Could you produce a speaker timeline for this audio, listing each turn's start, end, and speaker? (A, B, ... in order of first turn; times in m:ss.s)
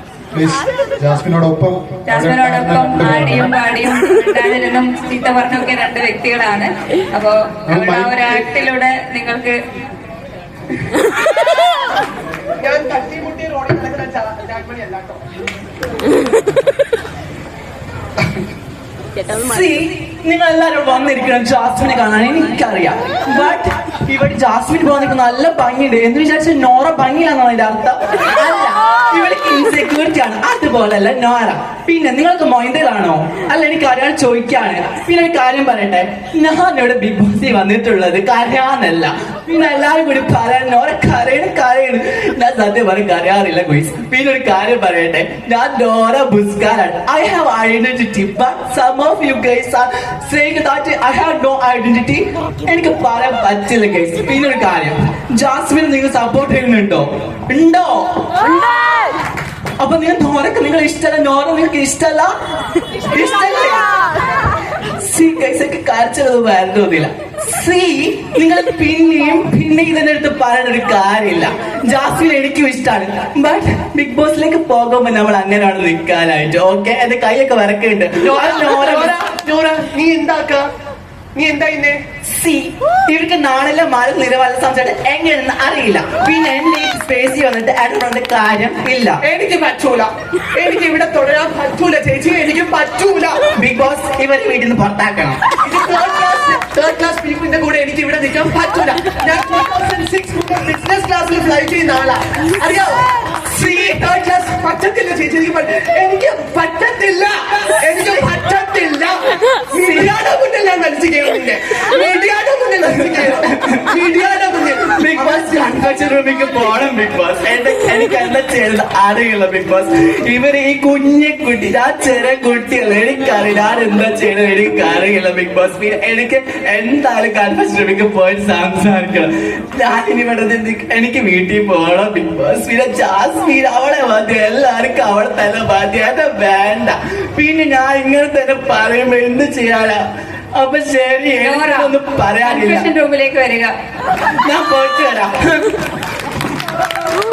0:00.3-0:03.5 A
0:02.1-0:09.6 B
0:07.7-0:08.3 A
0:12.6-0:15.2 C
0:19.4-0:58.1 D
0:59.8-1:02.3 D
1:03.1-1:03.8 D
1:05.0-1:19.2 D
1:18.2-1:20.7 C
1:21.4-1:22.0 C
1:22.3-1:29.2 D
1:29.2-1:33.5 C
1:33.6-1:35.4 D
1:35.6-1:49.2 C
1:49.7-1:55.6 C
1:53.3-1:53.8 D
1:55.0-2:20.0 D
2:20.6-2:22.9 D
2:21.4-2:23.7 B
2:24.4-2:25.8 D